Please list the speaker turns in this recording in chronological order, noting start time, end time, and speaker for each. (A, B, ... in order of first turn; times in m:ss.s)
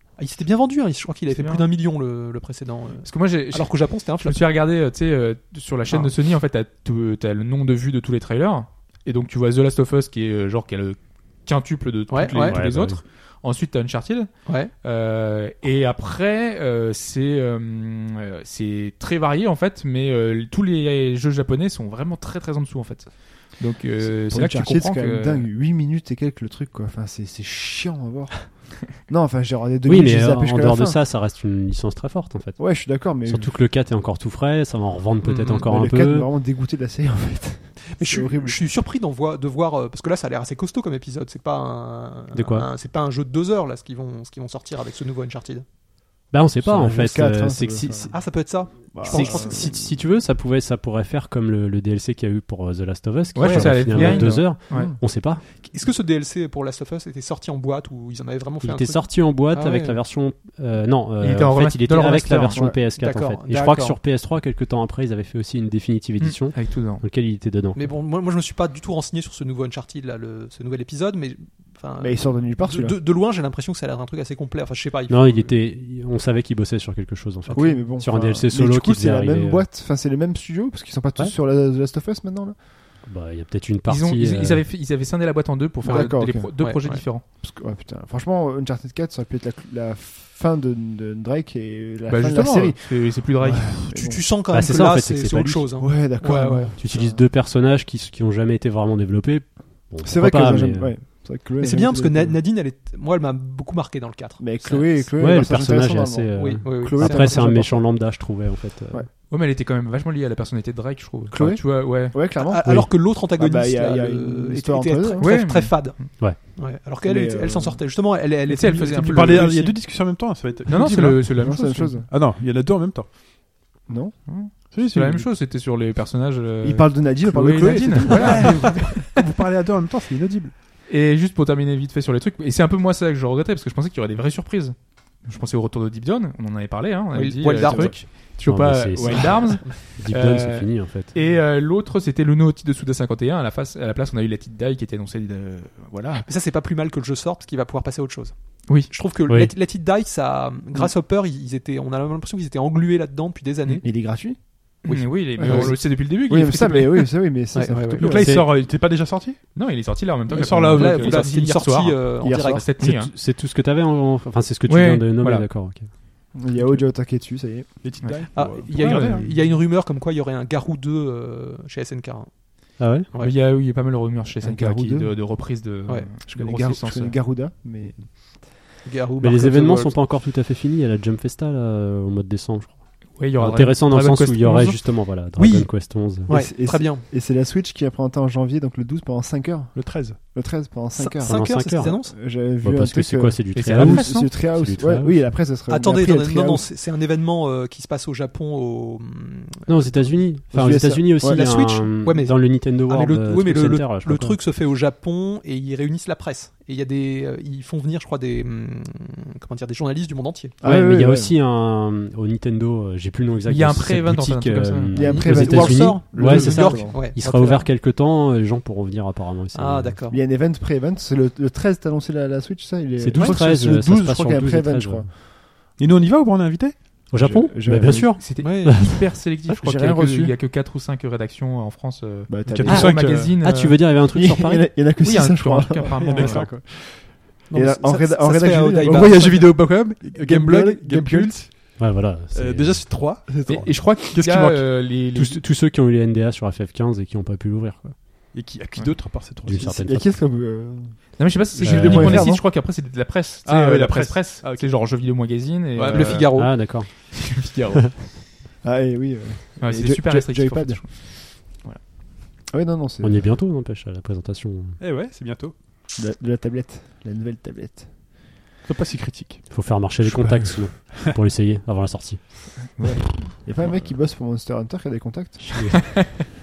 0:00.2-0:04.4 A
0:01.3-0:01.7 B
0:03.0-0:25.5 B
0:12.1-0:12.6 A
0:12.3-0:13.0 C
0:24.0-0:31.0 D
0:29.8-0:36.3 C
0:32.6-0:33.6 D
0:35.3-0:35.6 A
0:35.6-0:38.6 D
0:37.9-0:45.6 A
0:42.3-0:42.7 C
0:46.3-0:48.1 C
0:46.6-0:48.3 D
0:48.1-0:49.8 A
0:48.9-0:49.8 D
0:49.0-0:55.4 C
0:53.3-0:54.9 B
0:53.4-0:54.3 A
0:54.7-0:55.0 D
0:55.6-1:00.0 A
0:58.6-1:07.9 C
1:01.2-1:02.6 B
1:02.9-1:04.0 A
1:06.2-1:07.0 B
1:07.7-1:15.6 A
1:12.0-1:13.0 D
1:15.1-1:19.6 C
1:17.5-1:17.8 A
1:17.5-1:22.6 D
1:23.0-1:24.6 C
1:23.9-1:27.2 B
1:25.8-1:26.5 D
1:25.8-1:27.0 A
1:27.4-1:34.2 D
1:32.1-1:34.1 B
1:33.9-1:36.8 A
1:34.5-1:35.7 C
1:35.8-1:37.2 D
1:36.8-1:40.9 C
1:40.0-1:42.4 D
1:41.6-1:45.1 A
1:44.4-1:49.1 D
1:45.2-1:49.0 C
1:46.3-1:47.5 A
1:49.3-1:52.2 B
1:51.3-1:55.3 D
1:52.3-1:59.8 A
1:55.2-1:56.1 B
1:57.0-1:57.8 D
1:58.5-2:00.1 B
1:59.1-2:01.4 E
2:00.7-2:02.0 B
2:01.3-2:02.1 D
2:02.1-2:03.2 E
2:03.9-2:04.3 D
2:04.3-2:09.1 B
2:04.7-2:05.3 E
2:06.6-2:09.0 D
2:07.6-2:10.5 E
2:08.2-2:08.5 A
2:10.9-2:26.3 B
2:17.1-2:18.0 A
2:18.4-2:21.1 C
2:26.2-2:34.0 A
2:28.7-2:28.9 B
2:29.3-2:29.5 C
2:33.8-2:34.4 D
2:34.8-2:35.8 A
2:34.8-2:37.2 B
2:35.4-2:38.4 D
2:37.5-2:38.3 A
2:38.0-2:39.5 E
2:38.2-2:38.5 C
2:39.5-2:43.1 B
2:40.3-2:41.2 E
2:40.4-2:40.8 D
2:40.6-2:42.7 A
2:42.2-2:42.7 D
2:42.8-2:45.9 C
2:44.7-2:45.5 B
2:46.3-2:47.8 D
2:47.8-2:49.2 E
2:48.0-2:49.5 B
2:48.3-2:53.4 A
2:52.8-2:53.1 C
2:53.2-2:57.2 B
2:54.4-2:55.1 D
2:56.3-2:58.6 D
2:58.8-3:00.0 A
2:59.2-3:06.3 C
3:03.1-3:04.8 B
3:05.3-3:07.0 A
3:06.3-3:16.7 D
3:09.7-3:10.2 E
3:10.9-3:12.1 A
3:11.2-3:15.3 C
3:13.5-3:14.3 B
3:15.7-3:20.1 A
3:19.7-3:24.4 C
3:20.5-3:21.5 D
3:21.2-3:30.5 A
3:30.6-3:31.3 D
3:30.6-3:40.0 C
3:33.4-3:35.2 B
3:34.9-3:37.0 D
3:35.0-3:37.7 A
3:39.5-3:40.2 A
3:40.1-3:45.2 D
3:43.0-3:45.1 C
3:45.8-3:47.4 E
3:47.1-3:49.1 C
3:47.1-3:48.2 D
3:48.1-3:53.9 B
3:48.4-3:49.0 A
3:49.6-3:50.3 D
3:52.3-3:53.0 D
3:52.5-3:53.4 E
3:52.6-3:54.7 C
3:54.1-4:01.4 D
3:54.9-3:56.5 B
3:56.0-3:56.7 E
3:57.5-3:59.6 A
3:58.8-4:01.8 E
4:01.8-4:03.0 C
4:02.3-4:03.5 E
4:03.3-4:03.8 D
4:03.4-4:05.4 B
4:04.0-4:04.7 E
4:04.9-4:08.0 C
4:08.3-4:09.8 E
4:09.4-4:10.1 C
4:09.7-4:12.4 D
4:11.2-4:18.2 B
4:11.6-4:12.3 C
4:13.4-4:14.8 E
4:15.8-4:16.3 E
4:15.8-4:16.6 A
4:16.3-4:17.6 C
4:18.6-4:20.8 D
4:19.6-4:21.8 B
4:22.5-4:23.3 D
4:23.0-4:24.8 C
4:24.8-4:25.5 E
4:25.9-4:27.9 D
4:28.6-4:29.5 E
4:29.5-4:32.7 C
4:30.1-4:31.1 E
4:32.8-4:33.3 B
4:33.4-4:36.0 D
4:35.5-4:36.3 C